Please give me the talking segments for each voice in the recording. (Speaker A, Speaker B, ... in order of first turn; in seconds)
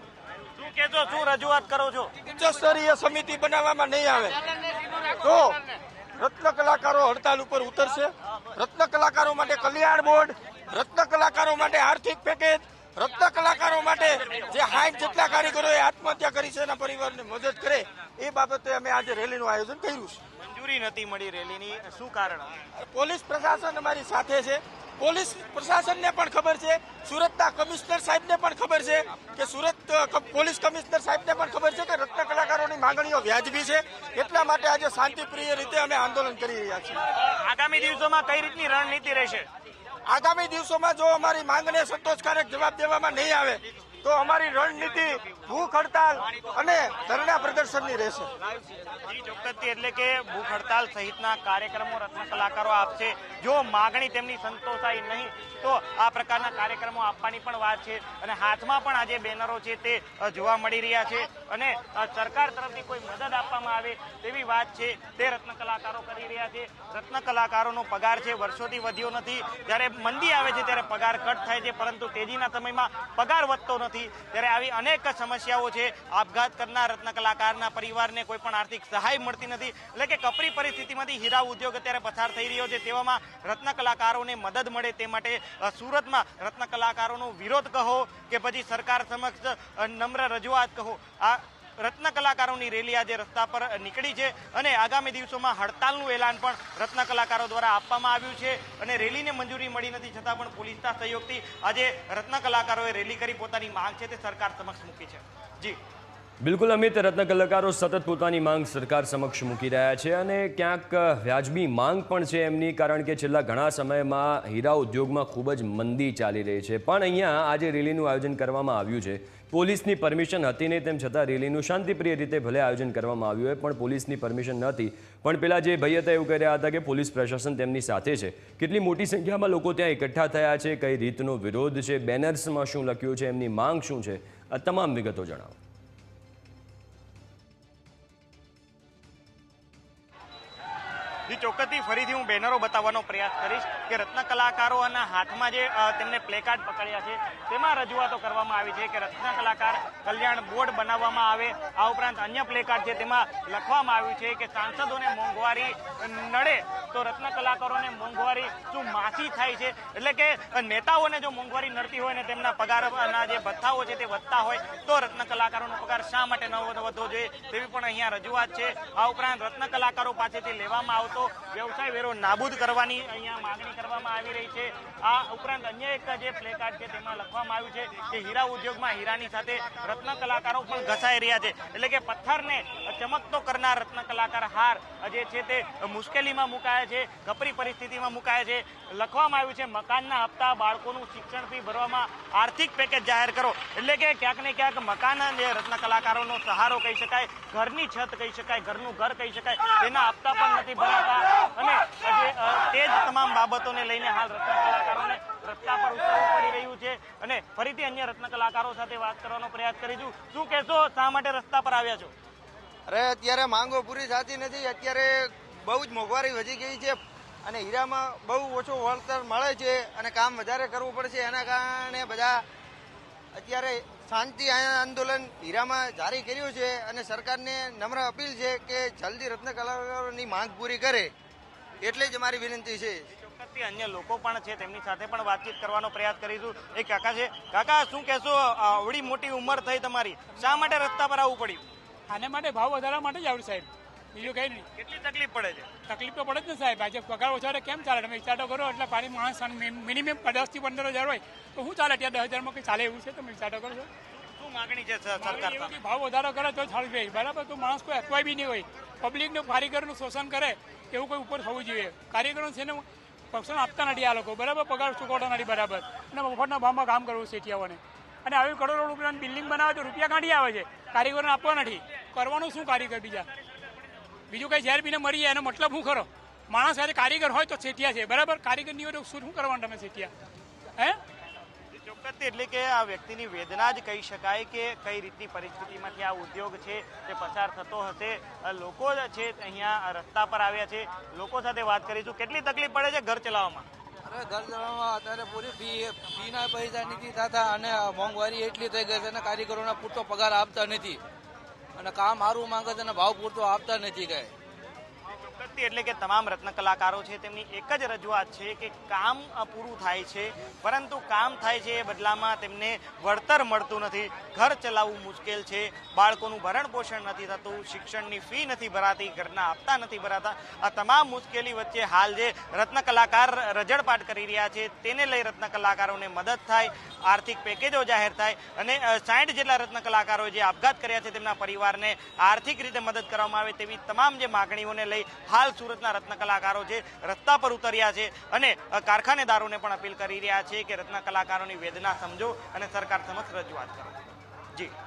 Speaker A: 0.6-2.1, 20.4-22.6, 37.1-39.5, 49.1-105.8, 141.3-212.1, 233.2-241.7, 244.8-245.8, 254.3-255.8, 281.7-293.7, 305.3-344.0
Speaker B: 2.4-4.4, 5.2-5.6, 6.2-20.2, 22.8-37.0, 40.1-48.3
Speaker C: 106.4-135.6
Speaker D: 212.9-222.4, 223.4-231.1, 231.8-233.0
Speaker E: 242.1-244.7, 245.9-253.9, 255.2-273.3, 274.3-280.1
Speaker F: 294.1-301.0, 301.8-304.3